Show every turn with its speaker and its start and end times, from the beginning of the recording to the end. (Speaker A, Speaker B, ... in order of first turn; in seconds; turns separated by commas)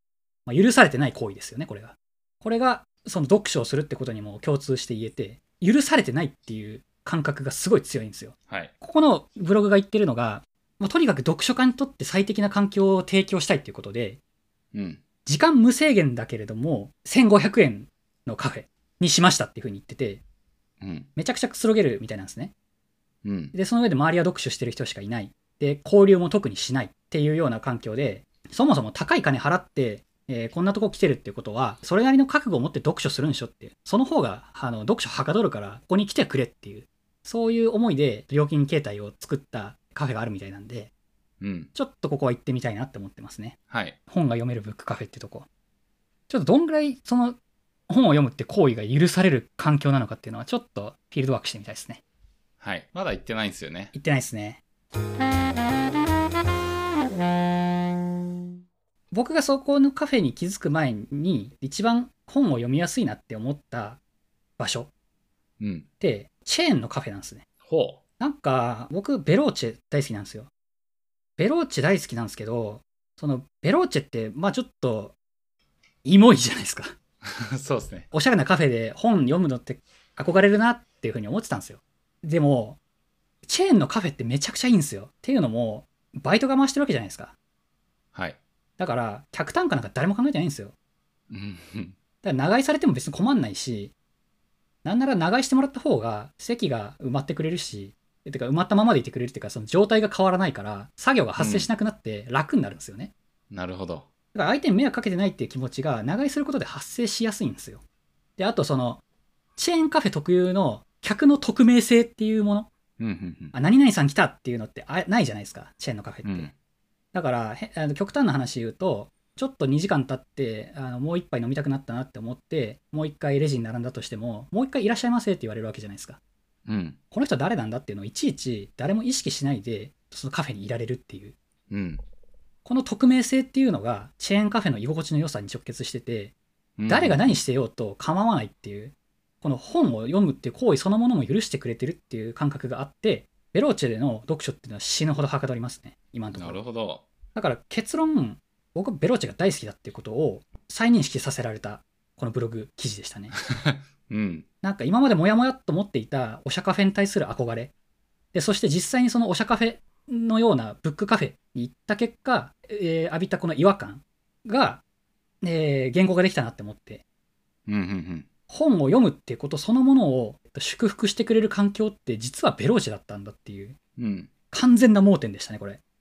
Speaker A: 0.5-14.2, Speaker B: 14.7-15.0, Speaker A: 15.2-20.2, Speaker B: 20.8-21.1, Speaker A: 21.1-22.5, Speaker B: 23.2-23.5, Speaker A: 23.5-40.9, Speaker B: 41.4-41.7, Speaker A: 41.7-45.5, Speaker B: 43.7-44.0, Speaker A: 46.3-47.4, Speaker A: 47.9-52.0, Speaker B: 52.6-53.9, Speaker A: 53.9-54.6, Speaker A: 59.1-64.0, Speaker A: 64.6-64.9, Speaker B: 65.6-65.8, Speaker A: 66.0-67.4, Speaker B: 67.6-68.0, Speaker A: 68.2-70.5, Speaker A: 71.4-75.1, Speaker A: 76.0-76.9, Speaker B: 77.2-78.1, Speaker A: 78.1-82.8, Speaker A: 83.5-87.3, Speaker A: 88.8-90.7, Speaker B: 91.3-92.0, Speaker A: 92.2-93.9, Speaker A: 94.8-103.1, Speaker B: 101.4-101.7, Speaker B: 103.5-104.1, Speaker A: 104.3-107.8, Speaker A: 108.4-109.0, Speaker A: 109.6-112.7, Speaker B: 113.0-113.5, Speaker A: 113.5-116.5, Speaker B: 116.2-116.5, Speaker A: 117.1-126.2, Speaker B: 126.7-127.0, Speaker A: 127.1-131.3, Speaker B: 131.7-132.0, Speaker A: 132.6-136.3, Speaker B: 136.8-137.3, Speaker A: 136.9-146.6, Speaker B: 146.3-147.0, Speaker A: 147.3-153.4, Speaker B: 153.7-154.4, Speaker A: 154.6-157.7, Speaker A: 158.3-164.8, Speaker A: 165.4-167.0, Speaker B: 167.7-168.2, Speaker A: 168.5-173.8, Speaker B: 174.0-174.3, Speaker A: 174.5-175.8